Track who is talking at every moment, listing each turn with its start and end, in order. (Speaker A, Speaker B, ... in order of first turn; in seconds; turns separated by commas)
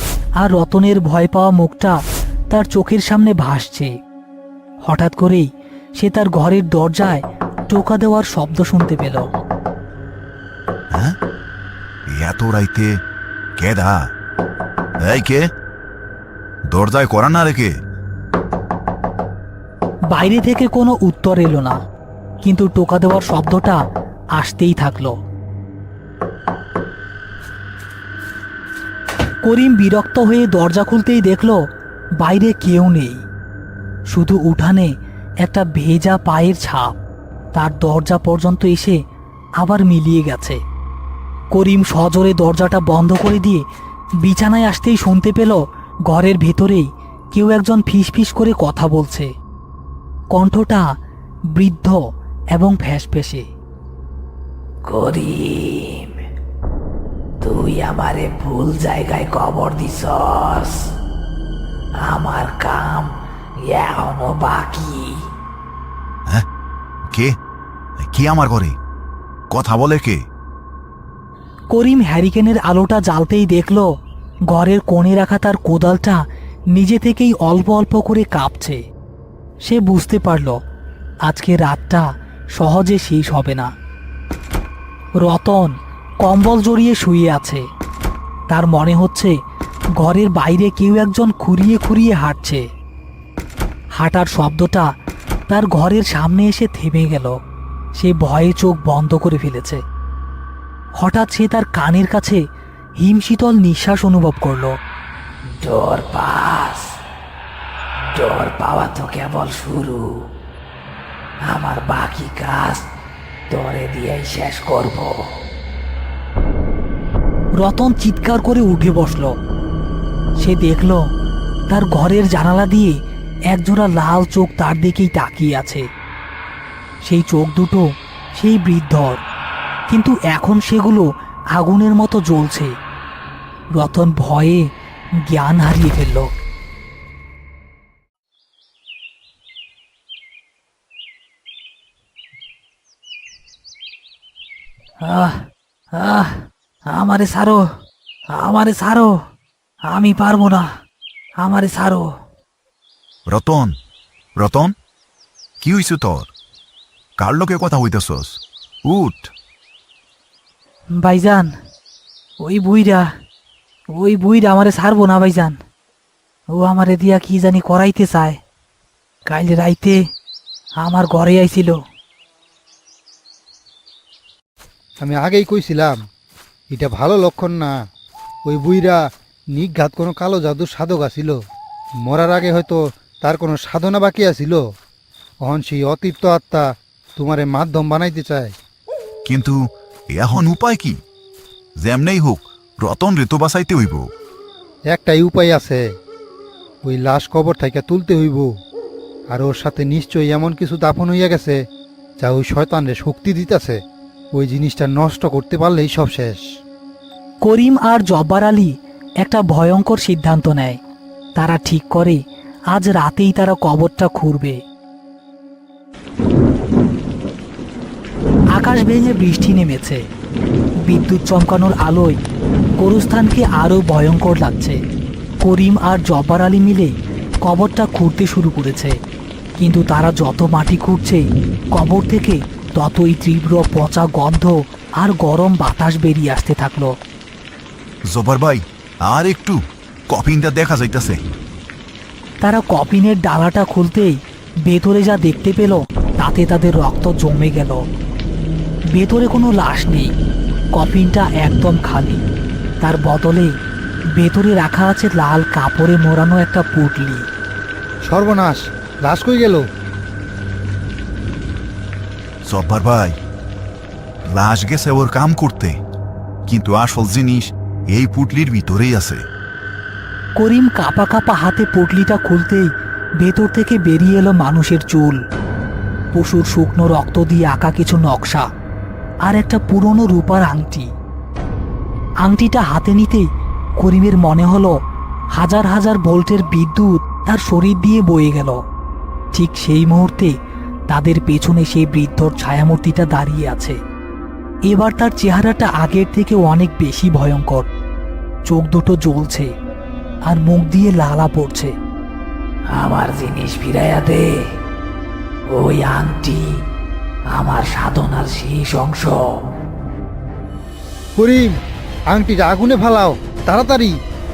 Speaker A: 0.4-1.9, Speaker A: 2.5-3.9, Speaker A: 4.8-5.5, Speaker A: 6.0-9.2, Speaker B: 12.1-12.9, Speaker B: 13.6-14.0, Speaker B: 15.0-15.4, Speaker B: 16.7-17.7, Speaker A: 20.1-21.8, Speaker A: 22.4-23.8, Speaker A: 24.4-25.1, Speaker A: 29.4-31.6, Speaker A: 32.2-33.2, Speaker A: 34.1-34.9, Speaker A: 35.4-36.9, Speaker A: 37.5-39.0, Speaker A: 39.6-40.6, Speaker A: 41.5-43.6, Speaker A: 44.2-49.3, Speaker A: 50.3-50.8, Speaker A: 51.5-52.0, Speaker A: 52.5-53.4, Speaker A: 54.9-56.1, Speaker A: 57.4-60.8, Speaker A: 62.0-63.1, Speaker A: 63.7-65.2, Speaker B: 68.1-68.8, Speaker B: 69.5-70.2, Speaker A: 71.7-73.9, Speaker A: 74.5-76.2, Speaker A: 76.7-78.8, Speaker A: 79.6-80.6, Speaker A: 81.2-83.7, Speaker A: 85.2-87.6, Speaker A: 88.5-89.3, Speaker A: 90.0-92.6, Speaker A: 94.0-94.8, Speaker A: 95.5-97.3, Speaker A: 98.0-99.8, Speaker A: 101.0-102.4, Speaker A: 103.0-104.7, Speaker A: 105.6-106.8, Speaker A: 108.1-110.1, Speaker A: 111.4-112.8, Speaker A: 113.5-115.2, Speaker A: 117.6-119.3, Speaker A: 120.4-121.0, Speaker A: 121.7-122.9, Speaker A: 123.5-125.8, Speaker A: 127.0-127.8, Speaker A: 128.3-129.2, Speaker A: 129.9-132.7, Speaker A: 133.8-134.6, Speaker A: 135.3-136.3, Speaker A: 145.0-147.6, Speaker A: 148.3-149.2, Speaker A: 149.9-150.7, Speaker A: 151.4-152.1, Speaker B: 153.3-153.7, Speaker B: 154.4-154.7, Speaker B: 155.6-156.3, Speaker B: 157.2-159.3, Speaker A: 160.9-161.5, Speaker A: 162.4-163.1, Speaker A: 163.9-165.6, Speaker A: 166.5-168.4, Speaker A: 169.3-170.0, Speaker A: 170.8-171.8, Speaker C: 175.0-176.0, Speaker C: 176.7-177.7, Speaker C: 178.4-179.0, Speaker C: 179.5-181.4, Speaker C: 182.0-184.6, Speaker C: 185.4-186.7, Speaker C: 187.2-188.5, Speaker B: 189.2-189.6, Speaker B: 190.1-191.0, Speaker B: 191.8-194.1, Speaker C: 194.9-195.8, Speaker C: 196.8-198.5, Speaker C: 199.3-201.6, Speaker C: 202.2-203.8, Speaker C: 204.3-206.4, Speaker A: 207.4-210.8, Speaker A: 211.4-212.2, Speaker A: 212.7-214.6, Speaker A: 218.6-220.0, Speaker A: 220.9-222.2, Speaker A: 222.8-224.8, Speaker A: 225.4-226.9, Speaker A: 227.4-228.9, Speaker A: 229.6-231.2, Speaker A: 231.7-236.9, Speaker B: 238.1-239.6, Speaker B: 240.1-241.2, Speaker A: 242.4-247.8, Speaker A: 248.9-250.1, Speaker A: 250.7-252.2, Speaker A: 252.8-253.5, Speaker A: 254.2-257.2, Speaker C: 258.1-259.6, Speaker B: 262.5-263.1, Speaker B: 264.3-265.7, Speaker B: 266.5-269.2, Speaker A: 270.4-275.2, Speaker A: 276.1-278.4, Speaker A: 279.2-280.9, Speaker A: 282.2-283.3, Speaker A: 283.8-284.7, Speaker A: 285.4-288.6, Speaker A: 289.3-290.3, Speaker A: 290.9-293.8, Speaker A: 294.7-297.7, Speaker A: 298.5-299.5, Speaker A: 300.3-301.7, Speaker A: 302.7-304.3, Speaker A: 305.6-306.5, Speaker A: 307.3-309.4, Speaker C: 311.2-311.5, Speaker C: 312.1-313.9